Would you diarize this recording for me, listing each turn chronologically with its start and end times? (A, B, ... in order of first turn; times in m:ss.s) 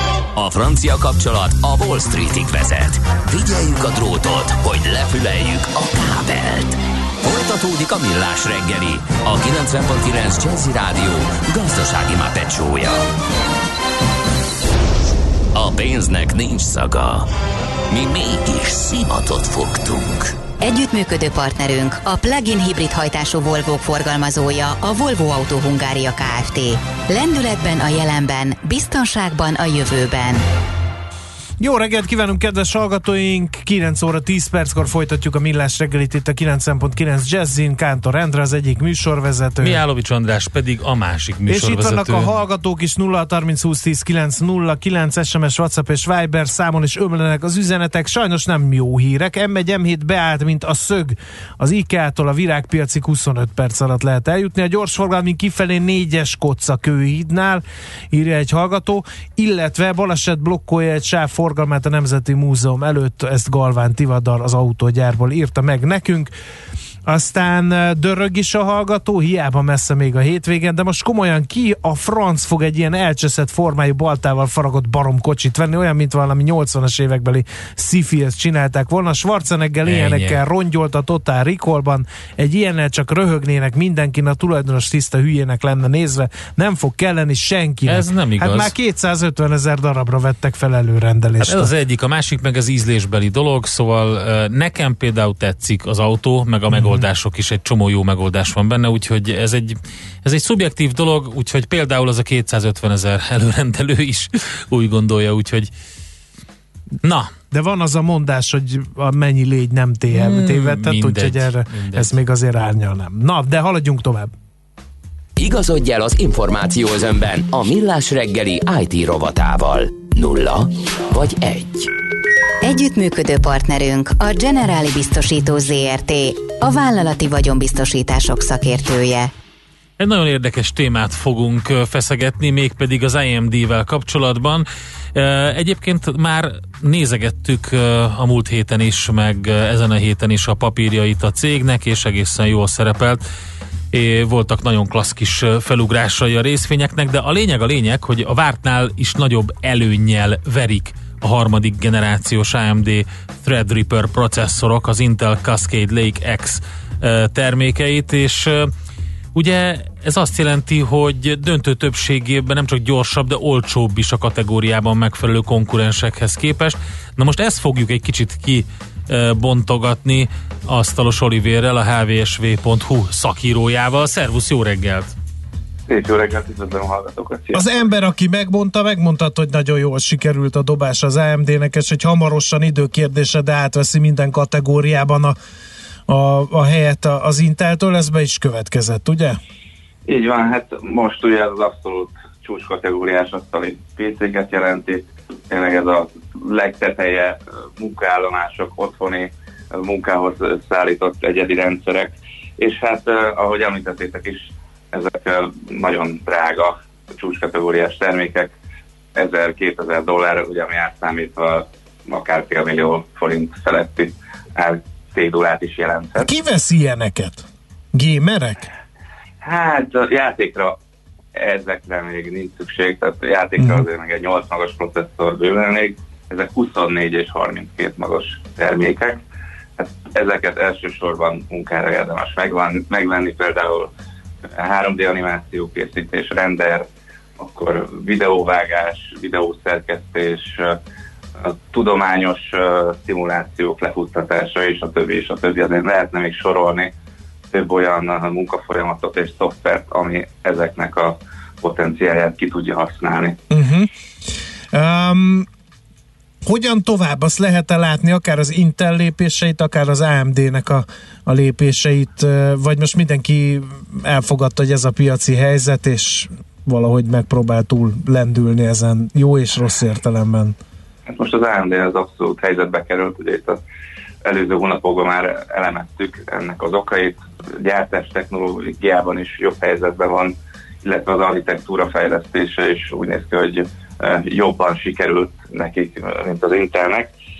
0:00.4-0:13.0 A
0:15.5-0:17.3 A
0:17.9-0:20.4 A
0:20.6-0:30.4 B
0:31.6-0:39.8 C
0:39.6-0:42.3 D
0:41.5-1:06.3 C
1:07.1-1:31.7 C
1:19.8-1:20.4 D
1:27.9-1:28.7 D
1:31.4-1:45.7 D
1:47.0-1:47.3 D
1:47.5-1:54.3 C
1:50.1-1:52.1 D
1:55.4-2:01.9 A
2:02.6-2:09.3 B
2:10.0-2:23.2 D
2:23.9-2:38.7 D
2:39.3-2:55.1 D
2:55.9-2:57.8 E
2:57.5-3:05.4 C
3:06.1-3:09.4 C
3:10.1-3:28.5 E
3:29.2-3:36.3 E
3:36.2-3:38.7 C
3:39.4-3:40.8 E
3:41.3-3:49.2 E
3:43.6-3:43.9 C
3:49.8-3:53.9 E
3:54.6-4:00.8 E
4:01.4-4:06.9 E
4:07.5-4:13.4 E
4:13.5-4:15.5 C
4:16.4-4:30.6 C
4:31.1-4:33.6 E
4:34.2-4:47.1 E